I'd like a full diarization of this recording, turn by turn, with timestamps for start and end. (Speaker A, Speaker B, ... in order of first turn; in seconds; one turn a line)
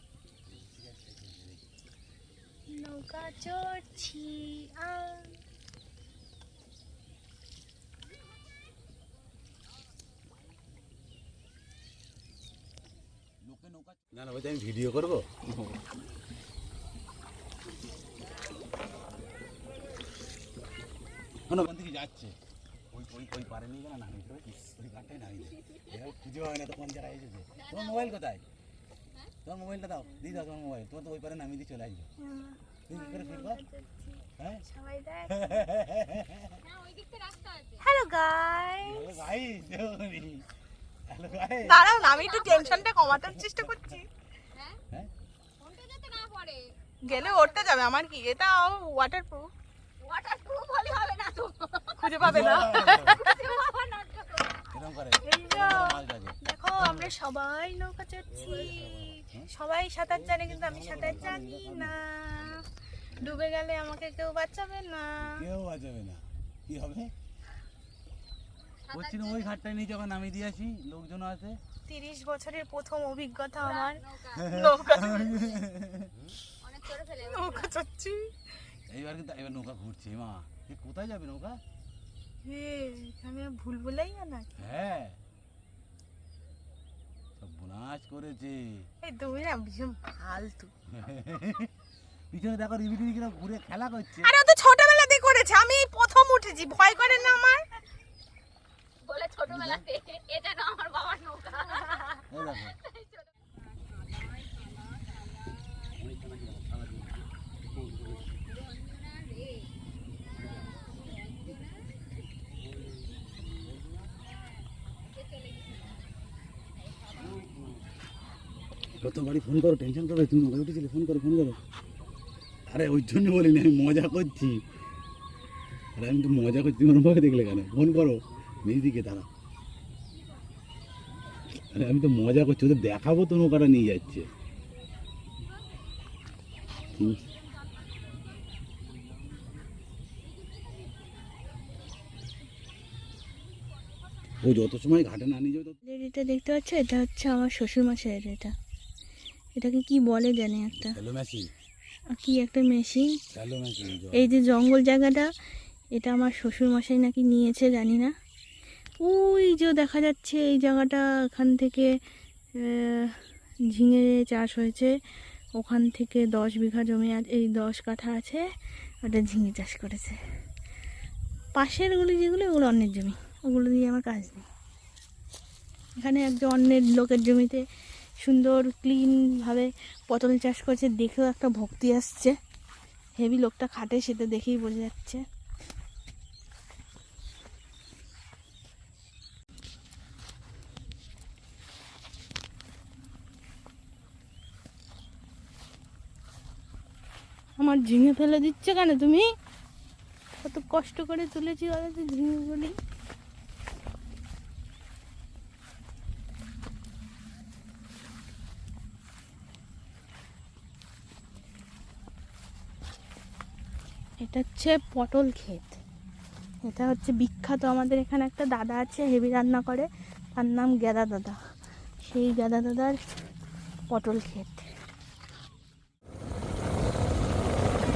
Speaker A: 0.5-1.6
Speaker B: 2.7-5.4
Speaker A: 13.4-15.4
Speaker A: 21.5-22.4
Speaker A: 22.9-28.4
Speaker C: 25.7-25.9
Speaker C: 27.5-28.2
Speaker A: 29.4-32.1
Speaker B: 32.2-35.7
Speaker A: 32.9-33.6
Speaker A: 34.4-34.6
Speaker A: 35.3-36.6
Speaker C: 36.6-37.9
Speaker B: 37.8-39.3
Speaker A: 38.8-40.5
Speaker A: 41.1-42.0
Speaker B: 41.6-44.1
Speaker C: 41.9-42.9
Speaker A: 43.1-43.8
Speaker C: 44.5-44.8
Speaker C: 45.6-47.8
Speaker B: 47.0-49.5
Speaker C: 50.0-54.7
Speaker B: 52.0-53.5
Speaker A: 52.2-53.2
Speaker A: 54.7-57.1
Speaker B: 55.2-62.7
Speaker A: 58.3-59.5
Speaker A: 60.1-63.4
Speaker B: 63.2-65.5
Speaker A: 65.2-67.1
Speaker C: 68.8-69.5
Speaker A: 68.9-71.6
Speaker B: 71.9-75.5
Speaker C: 73.6-75.6
Speaker A: 74.3-76.1
Speaker C: 76.6-77.7
Speaker B: 77.2-78.3
Speaker A: 78.9-81.6
Speaker B: 82.4-84.6
Speaker A: 84.5-85.2
Speaker A: 87.4-88.8
Speaker B: 89.0-90.7
Speaker A: 90.9-91.7
Speaker A: 92.3-94.3
Speaker B: 94.2-97.7
Speaker C: 96.8-97.4
Speaker C: 99.0-103.3
Speaker A: 99.5-99.9
Speaker A: 102.3-102.8
Speaker C: 104.4-105.1
Speaker A: 106.0-107.2
Speaker C: 108.3-109.7
Speaker C: 110.8-111.9
Speaker C: 115.2-116.0
Speaker A: 119.0-121.6
Speaker A: 122.7-124.6
Speaker A: 126.0-129.3
Speaker A: 131.5-134.3
Speaker C: 136.8-138.5
Speaker A: 136.9-137.2
Speaker C: 140.5-141.1
Speaker A: 144.4-145.8
Speaker B: 145.8-148.5
Speaker B: 149.6-151.0
Speaker A: 150.8-151.5
Speaker B: 152.1-153.2
Speaker A: 153.3-154.3
Speaker B: 154.1-155.3
Speaker B: 155.9-158.1
Speaker B: 159.0-161.9
Speaker B: 162.6-164.9
Speaker B: 165.5-168.4
Speaker B: 169.0-170.2
Speaker B: 171.5-174.5
Speaker B: 176.0-177.6
Speaker B: 178.2-182.3
Speaker B: 183.2-185.2
Speaker B: 197.6-199.3
Speaker B: 200.4-202.8
Speaker B: 214.2-215.8
Speaker B: 216.6-221.4
Speaker B: 222.0-223.0
Speaker B: 223.9-224.7